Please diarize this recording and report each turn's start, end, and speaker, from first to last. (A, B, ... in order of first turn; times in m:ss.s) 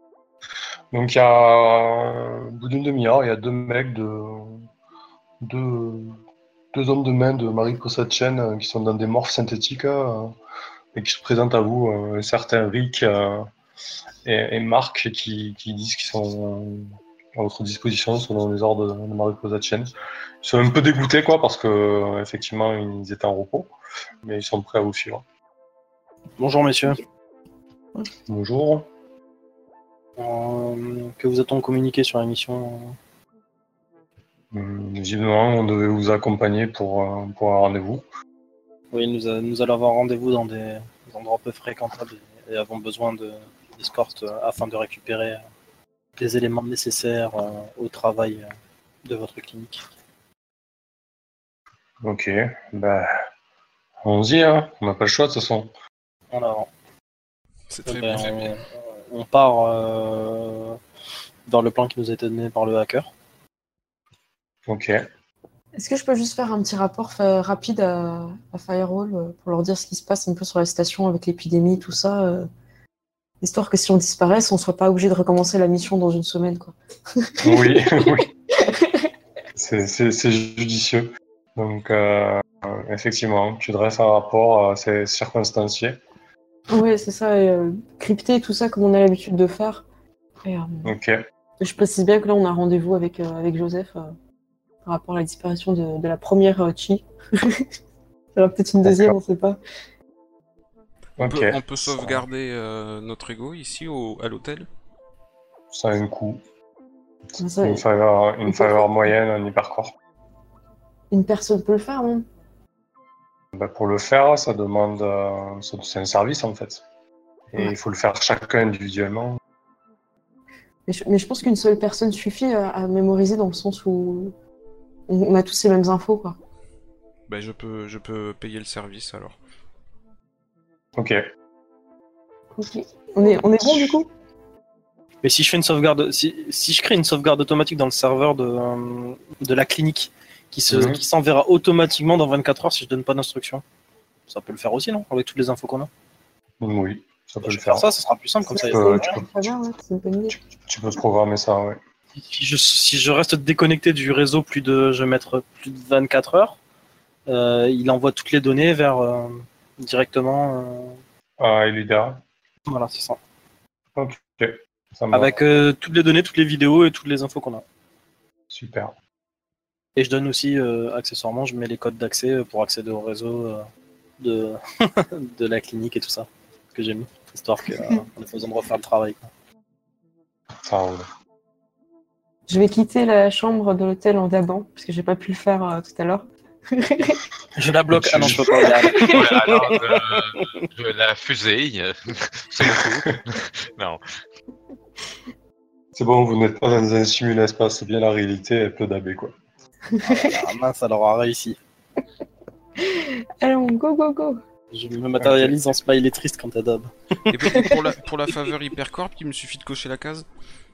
0:00.9-0:04.7 A
0:05.4-0:06.2 A
0:06.7-0:10.3 A
0:10.9-0:13.5 A
0:14.2-0:25.2 A
0:26.4-0:27.0 B
0:28.3-0:28.9 A
0:30.2-0:33.0 B
0:34.5-0:38.0 A
0:38.9-0:45.4 B
0:46.2-0:48.5 B
0:49.0-0:49.8 B
0:52.0-0:53.2 A
0:54.0-0:55.7 A
0:56.3-0:56.7 B
0:57.7-0:58.5 C
0:57.8-1:00.8 B
1:01.5-1:03.1 B
1:04.7-1:05.1 A
1:05.7-1:12.5 D
1:13.4-1:19.0 D
1:17.4-1:18.3 A
1:19.6-1:26.0 A
1:26.7-1:29.8 D
1:30.4-1:31.0 D
1:30.8-1:31.2 A
1:31.6-1:34.1 D
1:34.8-1:37.6 D
1:38.4-1:39.6 D
1:38.8-1:39.2 A
1:41.2-1:42.2 A
1:41.2-1:44.7 C
1:45.7-1:46.4 A
1:47.4-1:47.8 D
1:47.6-1:49.9 A
1:48.4-1:49.1 D
1:51.1-1:52.2 D
1:53.5-1:56.8 A
1:57.5-1:59.4 A
2:00.9-2:04.3 D
2:05.1-2:06.4 D
2:07.3-2:09.4 C
2:11.0-2:11.2 A
2:12.5-2:14.1 D
2:13.6-2:14.0 A
2:15.2-2:23.6 B
2:20.7-2:21.0 A
2:24.3-2:25.9 B
2:26.6-2:27.9 A
2:27.4-2:29.2 B
2:28.5-2:30.4 D
2:28.5-2:29.5 A
2:30.3-2:31.8 A
2:32.1-2:36.6 B
2:37.3-2:41.0 B
2:41.4-2:42.2 A
2:42.7-2:43.2 B
2:44.0-2:45.4 A
2:45.1-2:47.6 B
2:48.5-2:48.9 A
2:50.0-2:53.7 B
2:54.2-2:59.2 B
3:00.6-3:01.1 A
3:02.5-3:07.2 D
3:07.6-3:10.5 B
3:07.9-3:08.7 A
3:08.5-3:09.1 D
3:08.9-3:14.0 E
3:15.9-3:19.3 A
3:20.0-3:20.3 D
3:20.0-3:21.6 B
3:22.8-3:24.4 D
3:24.7-3:27.8 B
3:25.2-3:25.6 A
3:27.3-3:30.2 C
3:27.5-3:27.8 D